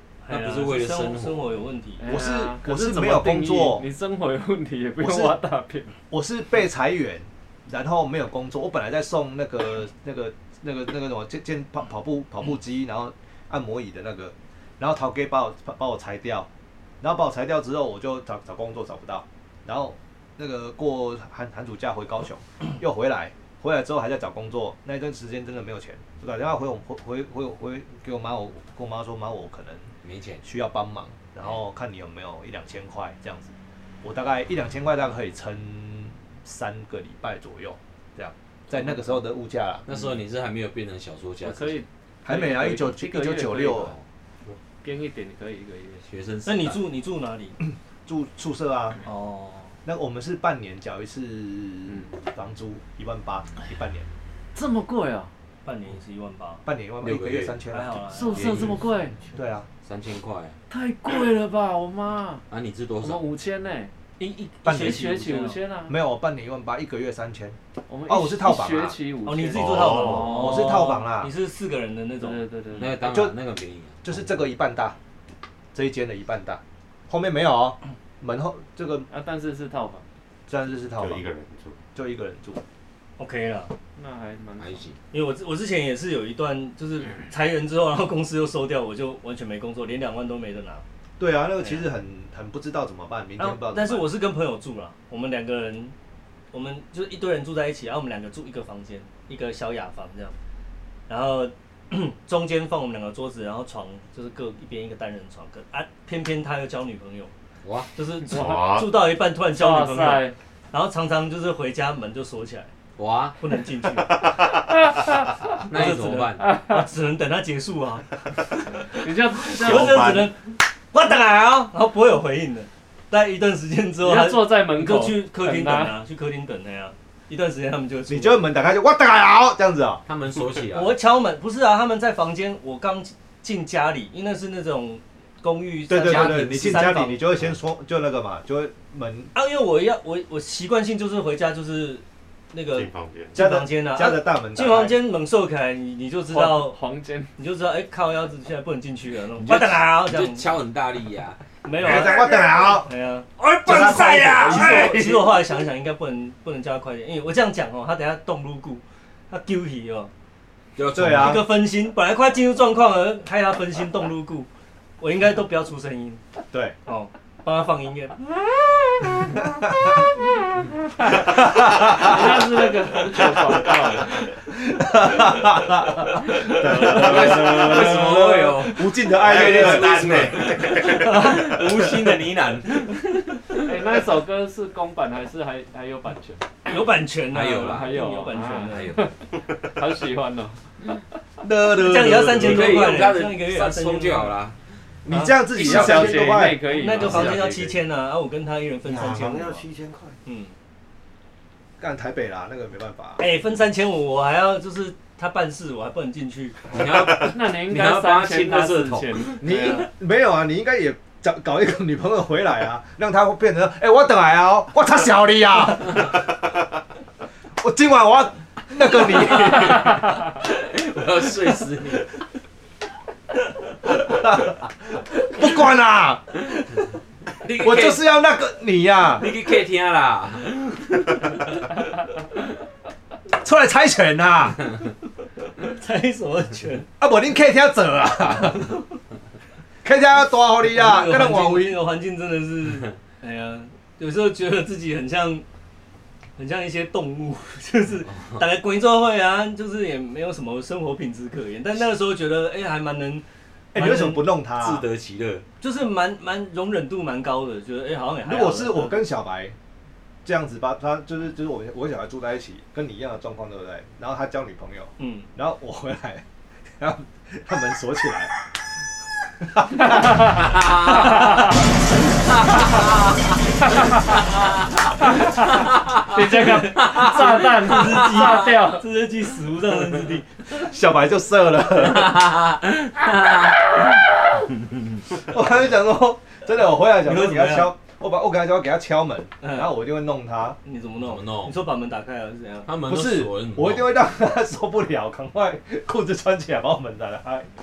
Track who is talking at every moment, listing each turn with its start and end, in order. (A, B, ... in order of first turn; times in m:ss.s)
0:00.2-0:02.0 A
0:00.3-0:01.6 B
0:02.0-0:05.9 C
0:02.1-0:03.8 D
0:05.0-0:05.4 D
0:06.1-0:16.5 D
0:17.0-0:29.9 D
0:30.0-0:30.4 B
0:30.4-0:39.8 D
0:39.8-0:41.8 B
0:41.4-0:43.9 C
0:42.2-0:44.0 D
0:44.8-0:46.0 C
0:46.1-0:46.8 B
0:46.4-0:47.6 A
0:47.7-0:49.0 D
0:49.0-0:49.7 A
0:49.8-0:54.1 D
0:54.5-0:55.3 C
0:55.6-0:56.6 A
0:56.6-0:57.9 D
0:57.0-0:57.6 B
0:57.7-0:58.5 A
0:58.1-0:59.2 C
0:58.3-0:58.7 B
0:59.3-0:59.7 D
0:59.8-1:00.6 B
1:00.7-1:02.4 C
1:02.5-1:03.2 B
1:03.0-1:03.9 C
1:04.2-1:05.6 A
1:04.6-1:05.0 D
1:04.7-1:05.9 C
1:05.9-1:09.0 D
1:07.9-1:11.0 C
1:09.2-1:12.4 A
1:09.5-1:10.4 E
1:10.3-1:11.3 D
1:12.2-1:13.0 C
1:12.7-1:14.2 B
1:13.0-1:13.4 D
1:14.0-1:15.0 D
1:15.7-1:19.1 D
1:19.1-1:20.0 C
1:20.5-1:21.2 D
1:21.0-1:21.8 E
1:21.9-1:22.6 D
1:23.2-1:23.7 A
1:23.9-1:24.8 C
1:24.6-1:25.0 B
1:25.1-1:30.8 A
1:31.2-1:34.1 D
1:31.6-1:31.8 A
1:33.4-1:35.9 A
1:36.5-1:40.4 A
1:41.1-1:47.3 A
1:47.6-1:47.9 B
1:48.0-1:52.7 A
1:48.2-1:49.0 E
1:49.5-1:50.4 C
1:53.0-1:53.4 B
1:53.4-1:54.3 A
1:54.1-1:54.9 E
1:54.7-1:55.1 C
1:55.7-1:56.4 B
1:55.7-2:08.5 A
1:56.4-1:56.9 C
1:59.0-2:00.2 C
1:59.5-2:00.3 E
2:04.0-2:05.9 C
2:08.1-2:10.0 D
2:10.1-2:11.0 B
2:10.7-2:17.2 A
2:15.9-2:19.3 D
2:15.9-2:17.0 B
2:19.3-2:26.8 A
2:22.7-2:23.4 E
2:23.3-2:25.0 D
2:26.3-2:27.3 C
2:27.4-2:30.5 A
2:29.4-2:31.4 B
2:31.6-2:40.1 A
2:31.8-2:32.9 D
2:33.6-2:35.2 D
2:33.8-2:35.4 C
2:40.8-2:41.5 B
2:40.9-2:41.5 D
2:41.1-2:44.5 A
2:45.0-2:46.2 A
2:46.8-2:49.3 A
2:49.4-2:50.0 D
2:51.1-2:52.4 D
2:51.2-2:54.3 C
2:54.4-3:00.2 D
2:56.2-3:03.7 B
2:56.6-2:58.1 A
2:59.2-3:01.3 E
3:00.8-3:02.2 A
3:03.6-3:06.4 C
3:06.6-3:08.9 A
3:07.3-3:08.0 B
3:07.6-3:10.7 C
3:08.7-3:09.1 B
3:11.4-3:13.0 D
3:11.8-3:14.3 A
3:12.3-3:14.6 B
3:15.0-3:16.6 D
3:15.1-3:19.6 A
3:15.6-3:17.2 C
3:16.8-3:17.6 B
3:16.9-3:17.8 E
3:18.8-3:20.2 E
3:20.2-3:20.5 A
3:21.8-3:23.2 D
3:23.2-3:26.6 A
3:26.7-3:29.3 B
3:27.1-3:29.4 C
3:29.4-3:36.2 D
3:29.4-3:29.9 A
3:37.6-3:40.0 D
3:39.3-3:42.2 B
3:44.0-3:46.4 D
3:47.4-3:48.0 B
3:47.6-3:49.3 D
3:49.1-3:51.6 B
3:53.4-3:54.6 D
3:55.6-3:56.9 A
3:57.0-3:58.8 D
3:59.8-4:01.8 D
4:00.6-4:05.4 A
4:06.4-4:14.2 A
4:08.2-4:08.4 B
4:13.7-4:14.8 D
4:14.6-4:15.4 B
4:15.6-4:19.0 A
4:18.2-4:19.6 D
4:20.2-4:26.2 D
4:25.0-4:25.3 A
4:26.8-4:28.3 D
4:29.4-4:30.4 D
4:29.7-4:30.5 C
4:30.4-4:31.1 B
4:32.3-4:32.9 B
4:35.0-4:38.8 C
4:35.7-4:38.5 B
4:36.4-4:40.5 A
4:40.5-4:42.3 D
4:41.8-4:44.1 B
4:44.7-4:45.0 B
4:45.1-4:50.6 D
4:47.0-4:47.7 A
4:49.4-4:49.7 A
4:50.6-4:52.7 A
4:51.0-4:51.6 B
4:52.6-4:53.9 B
4:52.9-4:57.5 D